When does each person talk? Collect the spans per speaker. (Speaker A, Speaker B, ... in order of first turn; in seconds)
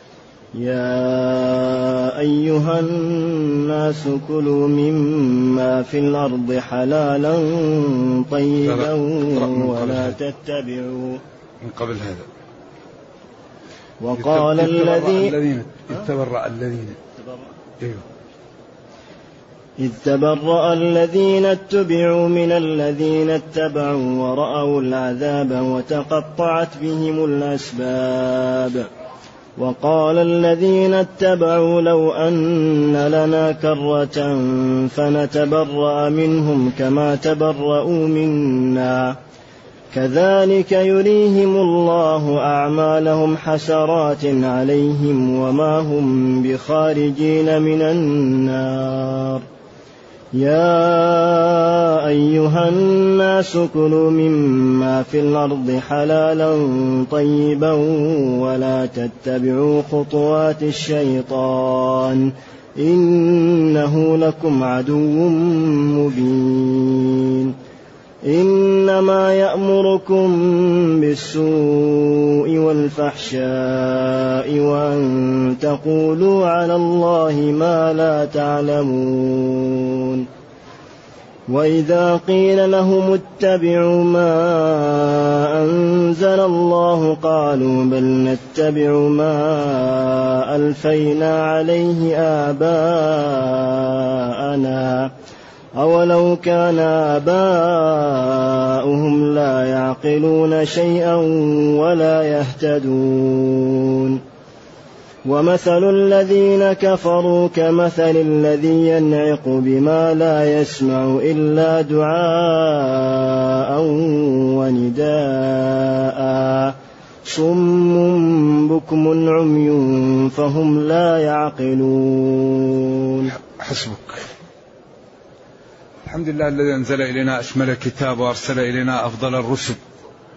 Speaker A: 0.6-11.2, 14.0-15.3, 19.8-28.9, 29.6-39.2, 39.9-49.4, 50.3-67.5, 68.2-80.3, 81.5-95.1, 95.8-104.2, 105.2-123.3
Speaker B: 8.6-10.1, 11.6-12.3, 14.1-17.0, 123.3-124.2, 126.0-129.8